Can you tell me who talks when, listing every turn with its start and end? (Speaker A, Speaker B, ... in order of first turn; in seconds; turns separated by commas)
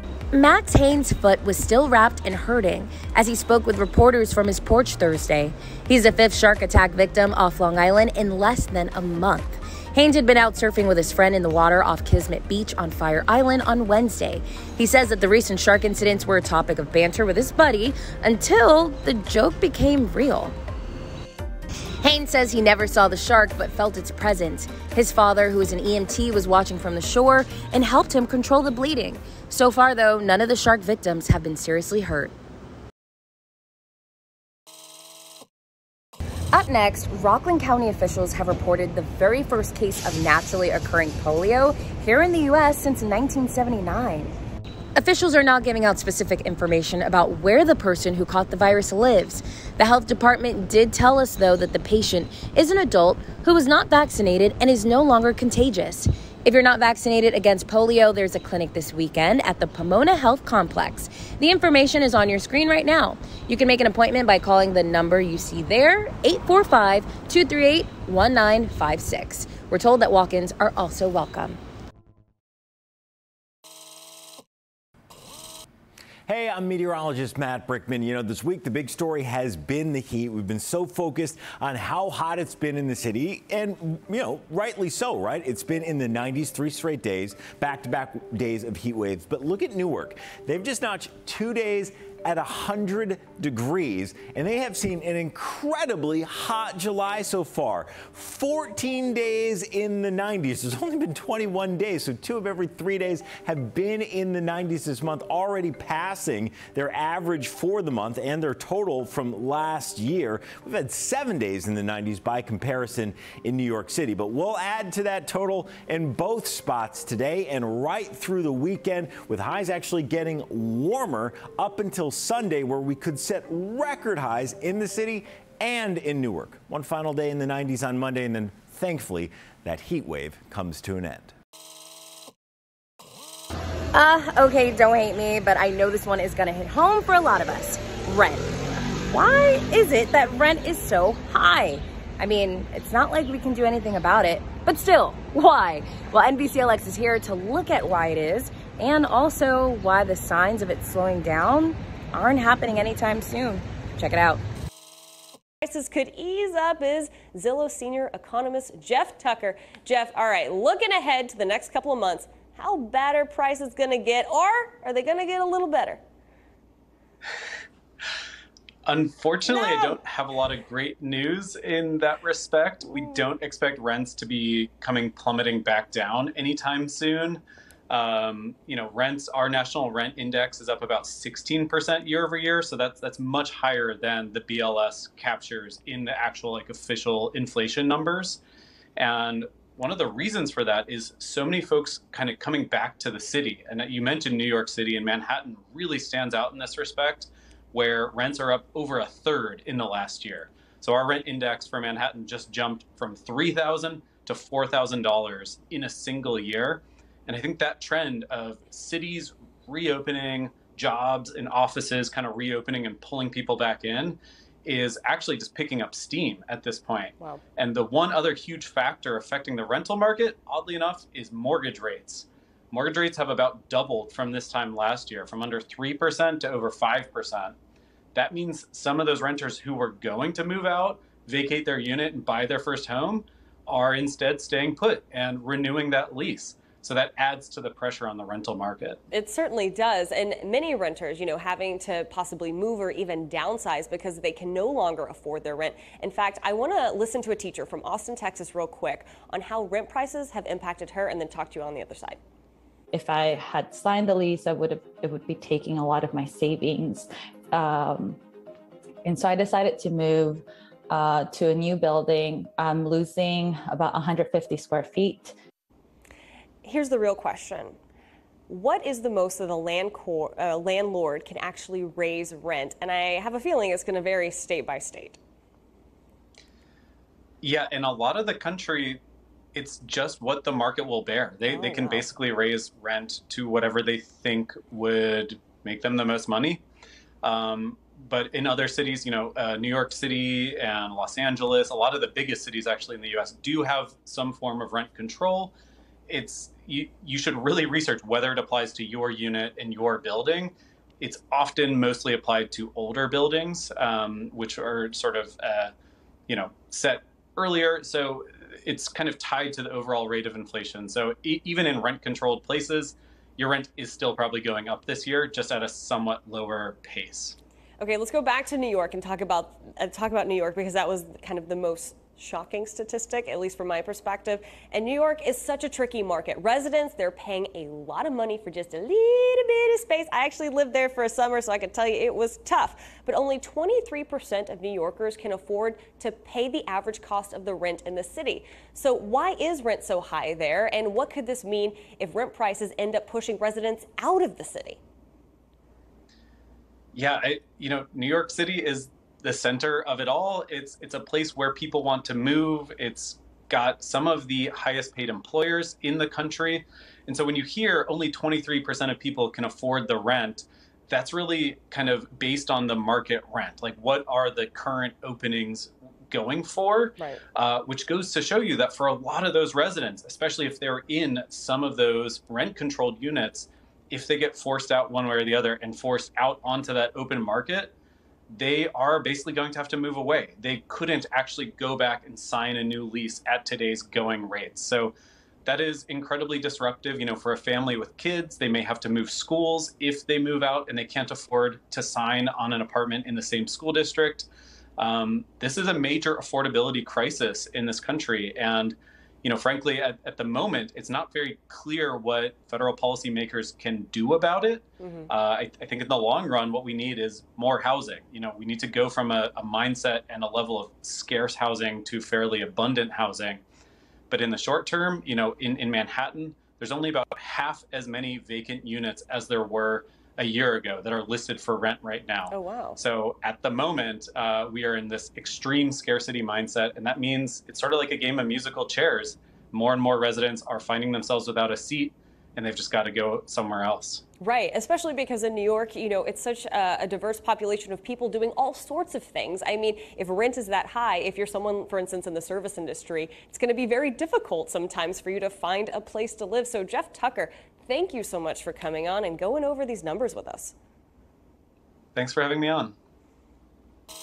Speaker A: 0.3-20.5, Speaker A: 22.0-32.3, Speaker A: 36.5-44.3, Speaker A: 45.0-71.6, Speaker B: 76.3-131.3, Speaker A: 133.9-138.5, Speaker A: 139.1-154.4, Speaker C: 155.6-166.0, Speaker D: 168.8-188.4, Speaker C: 169.5-170.0, Speaker C: 172.9-173.3, Speaker D: 189.0-227.6, Speaker D: 228.1-239.0, Speaker C: 239.1-252.2, Speaker E: 252.9-258.2, Speaker E: 259.0-265.3, Speaker C: 266.6-267.8, Speaker C: 268.5-275.2, Speaker D: 277.4-279.0, Speaker D: 279.5-286.6, Speaker C: 281.5-282.1, Speaker D: 287.2-295.5, Speaker D: 296.1-305.7, Speaker D: 306.3-317.4, Speaker C: 317.8-344.8, Speaker D: 346.9-377.7, Speaker C: 367.0-367.2, Speaker D: 378.3-384.9, Speaker D: 385.4-413.4, Speaker C: 404.8-405.1, Speaker D: 414.1-434.0, Speaker C: 422.3-422.8, Speaker C: 434.2-450.5, Speaker D: 451.9-452.7